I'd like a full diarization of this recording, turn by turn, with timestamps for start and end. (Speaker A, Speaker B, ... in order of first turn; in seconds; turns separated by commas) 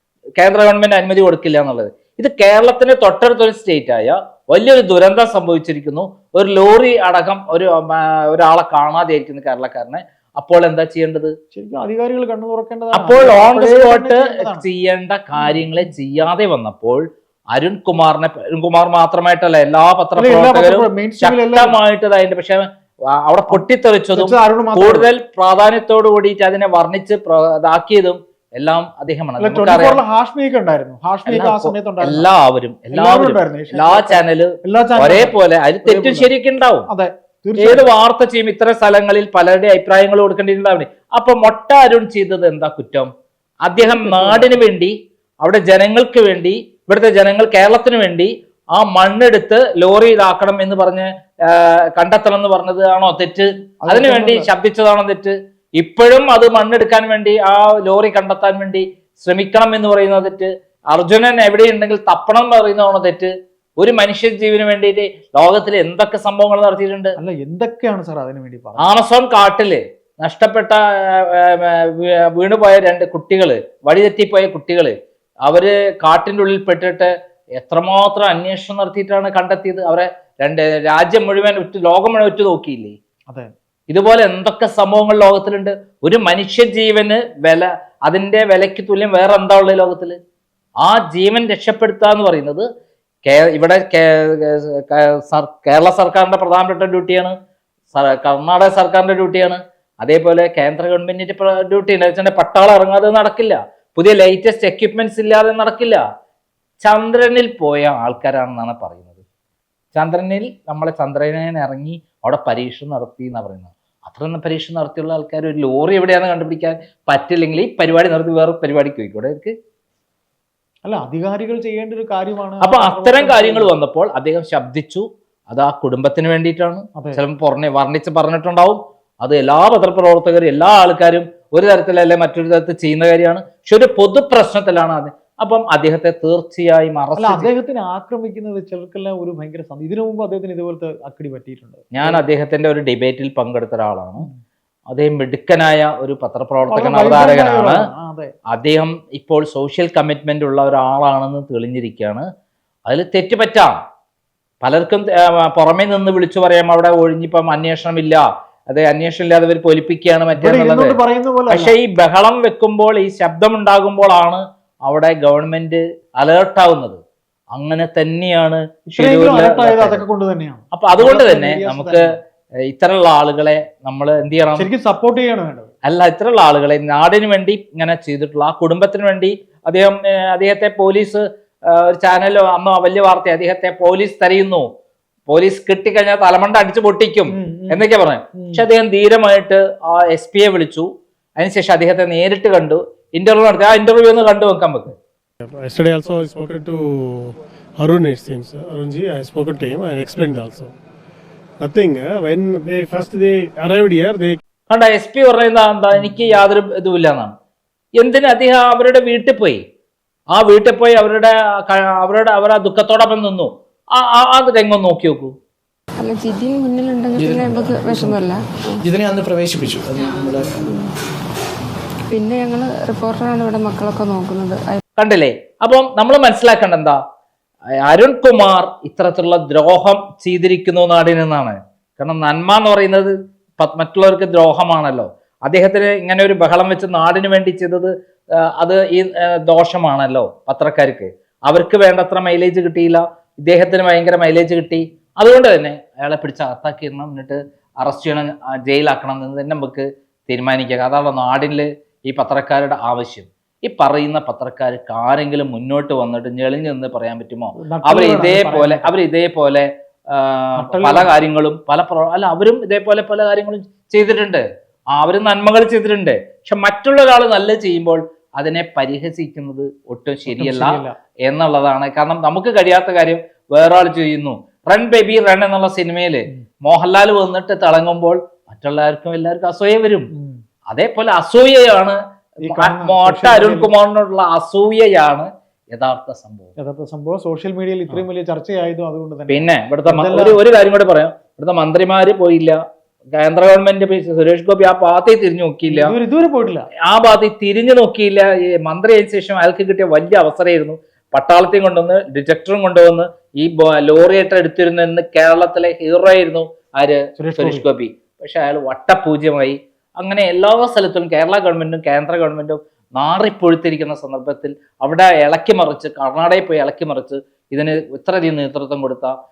Speaker A: 0.4-11.3, Speaker B: 11.5-14.6, Speaker A: 12.9-30.0, Speaker B: 20.1-21.8, Speaker B: 24.1-25.1, Speaker B: 29.4-32.3, Speaker A: 31.2-36.9, Speaker B: 32.9-36.3, Speaker B: 36.9-37.9, Speaker A: 37.6-43.1, Speaker A: 43.6-67.2, Speaker B: 43.8-44.6, Speaker B: 53.8-54.5, Speaker B: 67.2-68.9, Speaker A: 68.8-74.9, Speaker A: 75.4-83.0, Speaker A: 83.9-90.2, Speaker A: 90.8-92.7, Speaker A: 93.2-97.3, Speaker A: 97.9-106.0, Speaker A: 106.8-109.2, Speaker A: 109.9-119.5, Speaker B: 120.8-123.7, Speaker A: 122.6-137.5, Speaker B: 127.0-127.2, Speaker B: 137.2-142.2, Speaker A: 141.9-144.3, Speaker A: 144.9-147.8, Speaker B: 146.7-148.3, Speaker A: 148.5-152.2, Speaker A: 152.9-153.8, Speaker A: 154.6-161.0, Speaker B: 160.4-161.8, Speaker A: 161.5-167.0, Speaker A: 167.5-170.0, Speaker B: 168.9-172.1, Speaker A: 170.7-172.1, Speaker A: 172.7-174.7, Speaker B: 174.5-175.7, Speaker A: 175.8-184.7, Speaker A: 185.3-190.9, Speaker B: 187.3-188.6, Speaker A: 191.4-194.9, Speaker C: 195.4-200.7, Speaker C: 201.6-204.4, Speaker A: 204.7-207.3, Speaker B: 205.9-206.4, Speaker A: 208.0-209.6, Speaker A: 210.3-215.3, Speaker D: 216.0-218.8, Speaker E: 217.2-218.2, Speaker E: 218.8-220.7, Speaker D: 220.0-220.9, Speaker D: 222.1-224.8, Speaker A: 225.0-227.0, Speaker A: 227.8-264.4, Speaker B: 257.6-258.9, Speaker B: 260.6-261.1, Speaker A: 264.9-280.1, Speaker B: 270.3-270.9, Speaker B: 280.1-280.4, Speaker A: 280.7-286.5, Speaker B: 282.4-283.7, Speaker B: 286.6-290.4, Speaker A: 289.3-292.6, Speaker A: 293.1-295.9, Speaker B: 295.7-296.7, Speaker A: 296.8-319.1, Speaker B: 307.2-307.6